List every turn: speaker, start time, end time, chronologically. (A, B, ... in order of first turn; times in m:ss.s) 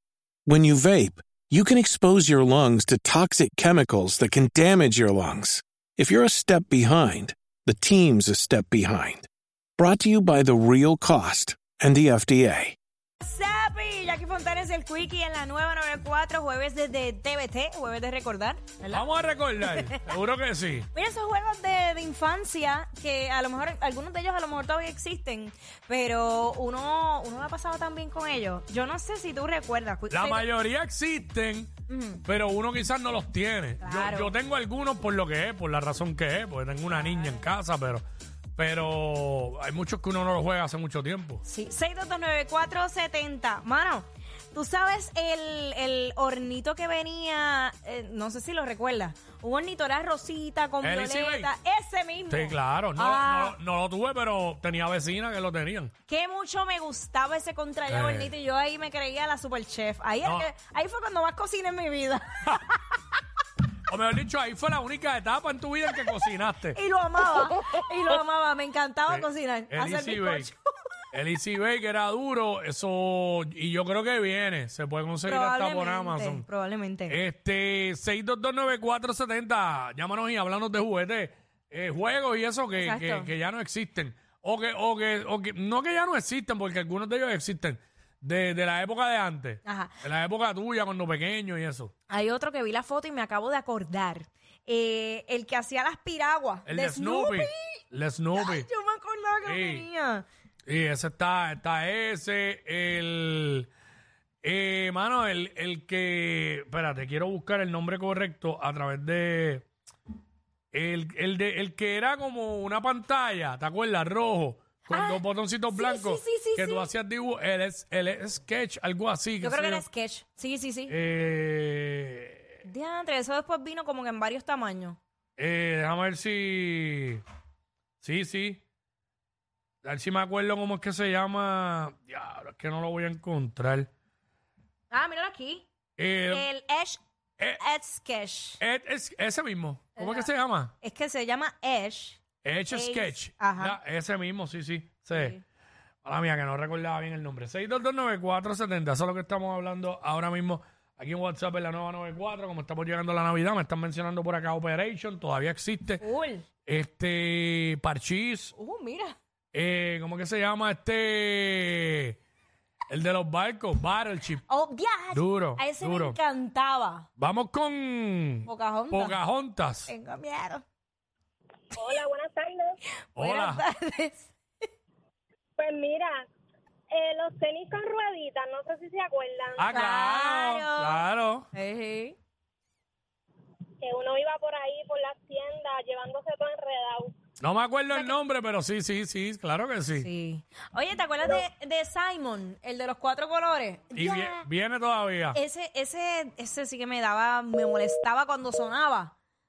0:00.5-0:12.8 A
0:13.2-0:19.0 B
0:18.9-0:20.9 C
0:19.6-0:20.1 B
0:20.9-0:30.4 B
0:30.1-0:31.7 C
0:31.9-0:32.2 B
0:32.2-0:38.0 C
0:33.8-0:34.3 B
0:36.9-0:37.4 B
0:38.6-0:41.4 C
0:41.4-0:53.6 B
0:50.8-0:51.5 C
0:52.3-0:55.9 C
0:56.1-1:02.6 B
0:57.9-0:58.3 C
1:00.2-1:00.5 C
1:03.9-1:06.8 C
1:06.7-1:10.6 B
1:09.1-1:10.5 C
1:11.1-1:16.4 C
1:15.2-1:17.2 B
1:17.1-1:31.9 C
1:22.8-1:23.3 B
1:29.6-1:30.0 B
1:32.1-1:37.8 B
1:36.6-1:38.7 C
1:38.3-1:40.2 B
1:39.4-1:39.9 C
1:40.7-1:43.7 C
1:44.4-1:49.7 C
1:50.7-1:59.8 C
1:54.9-1:56.9 B
1:59.4-2:00.9 B
2:00.9-2:02.5 C
2:02.6-2:05.0 B
2:05.4-2:07.2 C
2:08.0-2:08.6 C
2:09.8-2:13.9 C
2:14.9-2:15.6 B
2:16.0-2:16.5 C
2:16.3-2:17.0 B
2:17.6-2:18.6 B
2:18.6-2:20.7 C
2:20.0-2:20.3 B
2:20.8-2:23.8 B
2:22.4-2:25.4 C
2:25.1-2:25.4 B
2:26.0-2:36.0 C
2:36.0-2:36.4 B
2:36.6-2:38.5 C
2:38.6-2:39.2 B
2:39.5-2:42.2 C
2:42.9-2:44.4 C
2:44.5-2:47.0 B
2:45.1-2:46.2 C
2:47.2-2:49.9 C
2:48.4-2:49.2 B
2:49.9-2:50.6 B
2:51.7-2:52.8 D
2:53.2-2:53.6 C
2:53.2-2:54.3 B
2:55.6-2:56.3 D
2:56.9-2:59.7 D
2:59.5-3:01.5 C
2:59.7-3:02.2 B
3:03.8-3:07.1 D
3:07.4-3:10.1 C
3:07.9-3:08.1 B
3:09.9-3:14.4 B
3:13.9-3:15.4 C
3:15.3-3:19.1 B